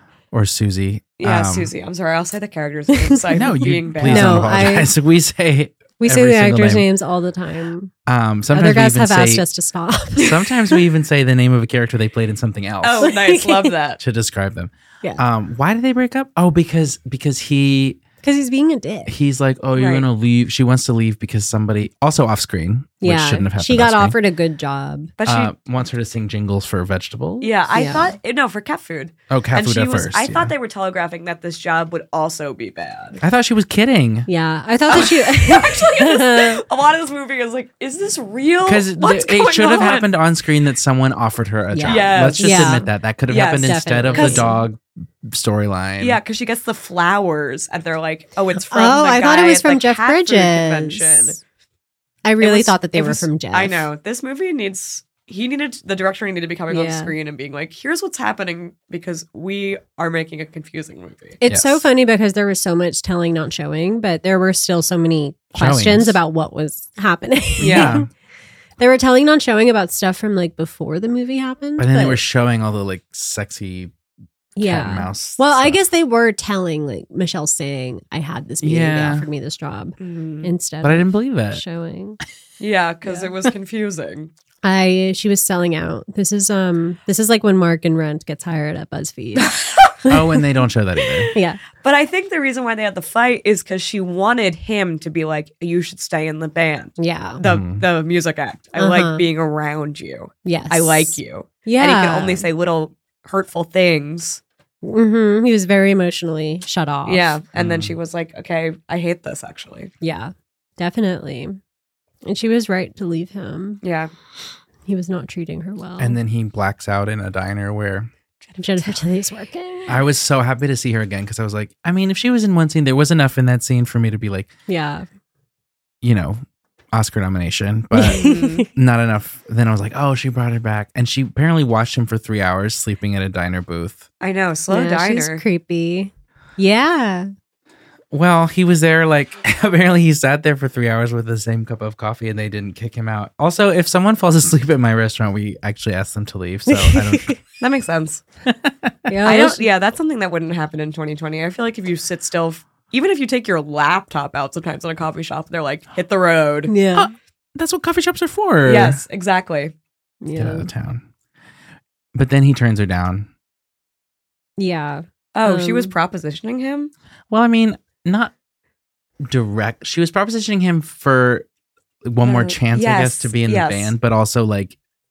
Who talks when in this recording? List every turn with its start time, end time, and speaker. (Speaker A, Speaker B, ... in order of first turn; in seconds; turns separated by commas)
Speaker A: 0.3-1.7, Speaker B: 1.2-4.7, Speaker A: 3.3-6.9, Speaker C: 4.0-4.9, Speaker C: 6.0-7.9, Speaker A: 8.1-9.4, Speaker C: 8.5-10.7, Speaker A: 10.2-13.1, Speaker B: 12.8-14.0, Speaker C: 13.0-13.7, Speaker A: 14.0-18.0, Speaker C: 18.2-19.1, Speaker A: 19.1-24.2, Speaker B: 19.8-20.1, Speaker C: 23.0-25.1, Speaker B: 25.2-25.5, Speaker A: 25.3-27.5, Speaker B: 27.4-33.2, Speaker C: 27.7-28.1, Speaker A: 29.3-30.5, Speaker A: 33.2-34.3, Speaker C: 34.3-36.6, Speaker B: 34.9-40.1, Speaker A: 38.6-46.2, Speaker C: 41.7-42.9, Speaker B: 41.9-42.8, Speaker B: 43.3-44.5, Speaker C: 43.4-44.6, Speaker B: 46.0-51.4, Speaker C: 48.7-51.4, Speaker C: 52.2-53.9, Speaker B: 52.4-61.4, Speaker C: 56.7-57.1, Speaker C: 61.4-68.1, Speaker A: 61.5-61.9, Speaker A: 65.5-66.2, Speaker A: 67.6-68.1, Speaker B: 67.6-68.0, Speaker C: 68.8-72.2, Speaker A: 71.8-73.9, Speaker C: 74.6-82.2, Speaker A: 74.6-75.8, Speaker A: 78.6-79.3, Speaker B: 80.0-80.5, Speaker A: 80.8-81.6, Speaker B: 82.6-84.3, Speaker C: 83.0-83.3, Speaker C: 84.6-89.5, Speaker B: 89.4-90.0, Speaker A: 90.1-91.3, Speaker B: 91.0-104.4, Speaker C: 91.3-91.6, Speaker C: 97.0-97.4, Speaker A: 97.4-97.8, Speaker C: 98.8-99.2, Speaker C: 100.5-102.5, Speaker C: 104.8-107.4, Speaker B: 107.1-109.9, Speaker A: 107.5-108.0, Speaker C: 110.0-111.6, Speaker C: 112.3-113.8, Speaker B: 113.8-114.1, Speaker C: 114.9-116.2, Speaker A: 116.0-118.1, Speaker B: 118.5-119.0, Speaker C: 118.6-120.0, Speaker A: 119.9-124.5, Speaker C: 124.7-125.1, Speaker A: 126.0-126.4, Speaker A: 126.9-134.1, Speaker C: 127.9-128.7, Speaker B: 128.1-128.7, Speaker B: 134.2-135.4, Speaker C: 134.7-137.3, Speaker A: 138.1-147.4, Speaker C: 146.7-147.4, Speaker B: 147.6-148.2, Speaker A: 148.4-148.9, Speaker C: 149.1-149.7, Speaker B: 149.2-156.7, Speaker C: 156.7-157.1, Speaker A: 156.9-159.0, Speaker B: 158.7-159.7, Speaker C: 160.2-160.7, Speaker A: 160.4-161.0, Speaker A: 162.1-163.3, Speaker C: 164.6-165.9, Speaker B: 165.3-166.9, Speaker A: 167.3-168.3, Speaker A: 169.2-171.5, Speaker A: 172.0-174.8, Speaker B: 172.2-173.9